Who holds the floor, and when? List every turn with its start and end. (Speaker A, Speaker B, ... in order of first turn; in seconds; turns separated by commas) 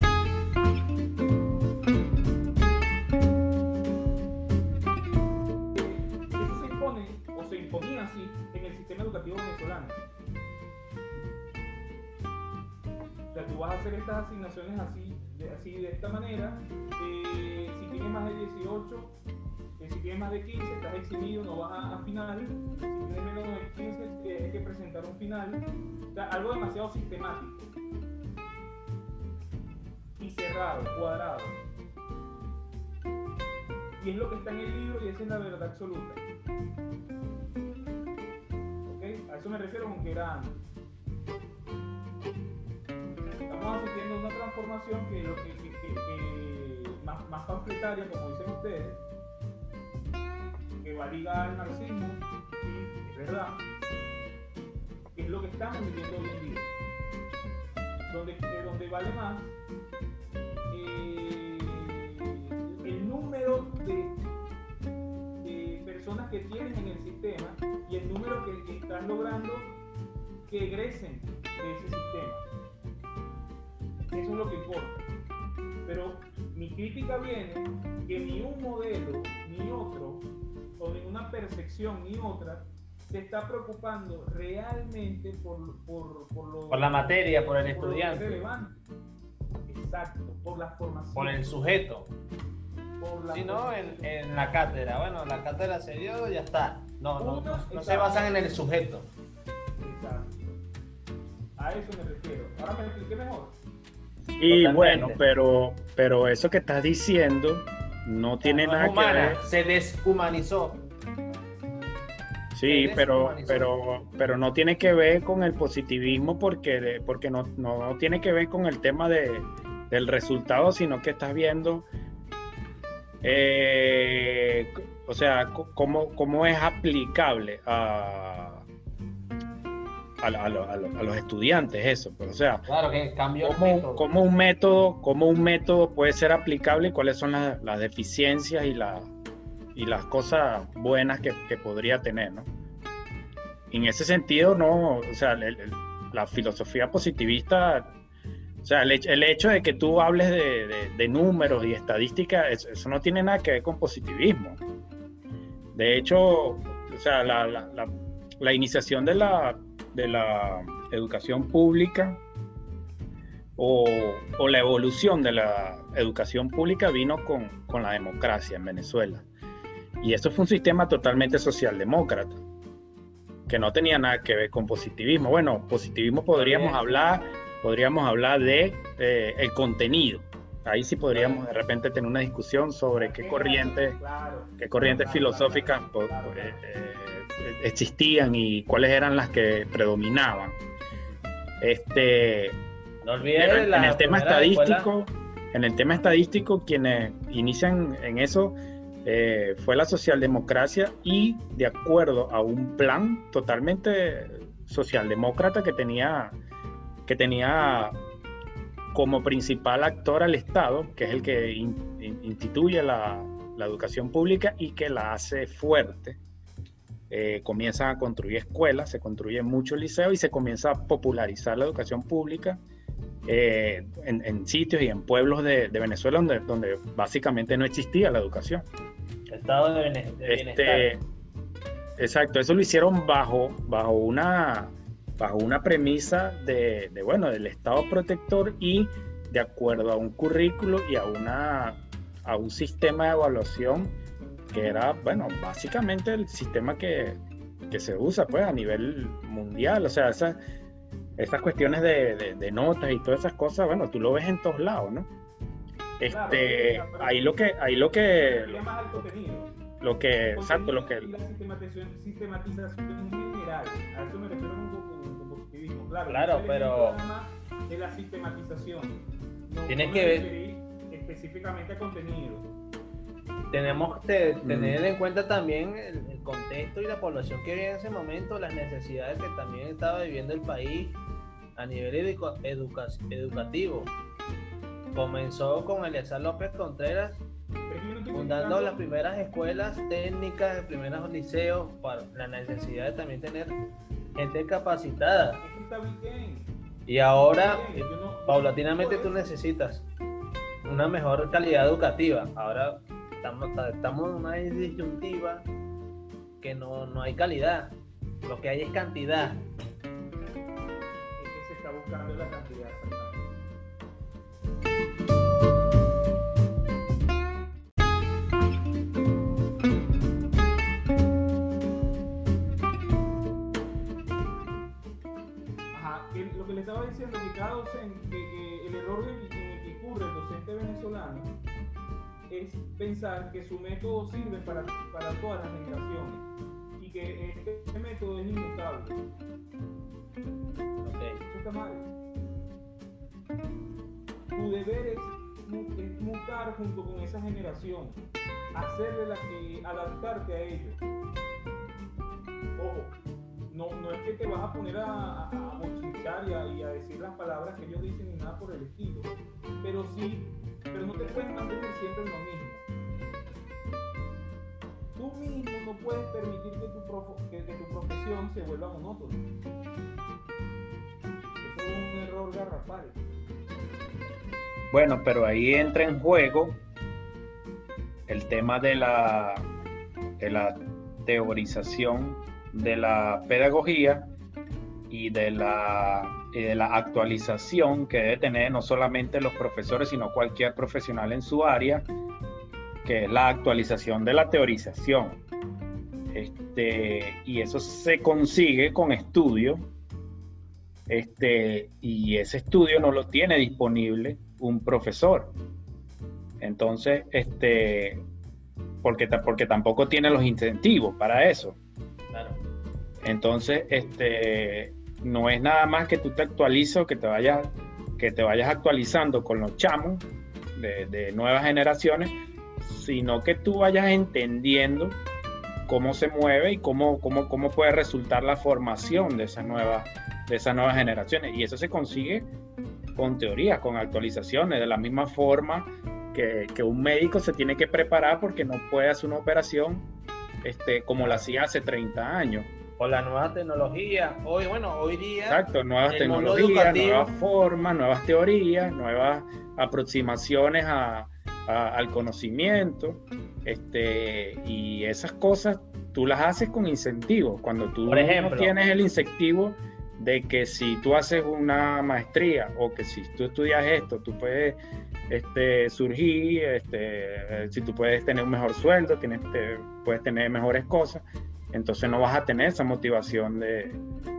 Speaker A: 5.7-10.0, Speaker A: 13.3-19.2, Speaker A: 19.8-27.7, Speaker A: 30.2-31.6, Speaker A: 34.0-36.2, Speaker A: 38.9-40.6, Speaker A: 43.5-49.0, Speaker A: 50.8-53.7, Speaker A: 55.1-56.7, Speaker A: 58.1-59.5, Speaker A: 60.7-64.2, Speaker A: 65.4-69.8, Speaker A: 70.5-72.4, Speaker A: 74.1-75.0, Speaker A: 75.8-88.8, Speaker B: 86.7-88.4, Speaker A: 89.7-91.4, Speaker B: 91.1-92.1, Speaker A: 93.0-94.1, Speaker B: 93.3-99.1, Speaker A: 97.2-98.2, Speaker A: 99.8-100.5, Speaker A: 101.6-103.6, Speaker C: 104.4-109.4, Speaker B: 104.5-105.2, Speaker B: 108.4-110.8, Speaker C: 112.5-121.9, Speaker B: 112.6-113.7, Speaker C: 123.2-128.7, Speaker C: 130.2-132.7, Speaker B: 132.7-134.1, Speaker C: 133.4-139.1, Speaker C: 139.7-142.5, Speaker C: 143.7-147.9, Speaker C: 148.6-154.6, Speaker C: 155.7-162.2, Speaker C: 163.6-169.3, Speaker C: 170.0-172.4, Speaker C: 173.5-184.0, Speaker B: 176.3-177.0, Speaker B: 181.1-181.4, Speaker A: 182.9-186.7, Speaker C: 184.6-190.6, Speaker C: 191.6-192.6, Speaker B: 193.0-194.9, Speaker C: 193.3-206.4, Speaker C: 207.1-208.0, Speaker C: 208.9-216.2, Speaker C: 217.1-222.6, Speaker C: 223.2-228.7, Speaker B: 229.3-230.9, Speaker C: 230.2-231.0, Speaker C: 232.0-244.0, Speaker C: 244.5-247.2, Speaker C: 247.7-250.4, Speaker C: 251.2-255.1, Speaker C: 256.0-258.6, Speaker A: 256.0-259.5, Speaker C: 259.8-261.1, Speaker A: 260.3-272.5, Speaker B: 266.1-267.0, Speaker B: 269.7-270.3, Speaker B: 273.5-281.0, Speaker C: 274.4-274.8, Speaker B: 281.6-283.9, Speaker B: 284.9-287.2, Speaker A: 287.7-288.8, Speaker B: 288.1-293.6, Speaker B: 294.1-295.4, Speaker A: 295.4-296.5, Speaker B: 296.9-299.9, Speaker A: 297.3-299.2, Speaker B: 300.6-305.5, Speaker B: 306.4-309.5, Speaker A: 311.2-313.3, Speaker A: 325.7-331.4, Speaker A: 332.3-339.0, Speaker B: 340.8-341.2, Speaker A: 341.2-341.9, Speaker A: 344.3-350.8, Speaker A: 352.6-352.9, Speaker A: 353.5-362.6, Speaker A: 364.9-369.3, Speaker A: 371.4-373.0, Speaker C: 374.7-376.6, Speaker C: 378.1-379.5, Speaker C: 380.2-384.1, Speaker C: 384.9-391.9, Speaker C: 392.8-395.2, Speaker C: 396.1-399.7, Speaker C: 400.9-405.4, Speaker C: 406.4-408.1, Speaker C: 408.8-411.6, Speaker B: 412.1-412.4, Speaker C: 413.0-425.0, Speaker C: 425.7-432.3, Speaker C: 432.9-439.9, Speaker C: 440.4-442.5, Speaker B: 442.8-447.1, Speaker C: 445.2-464.6, Speaker B: 457.9-458.5, Speaker C: 465.1-473.8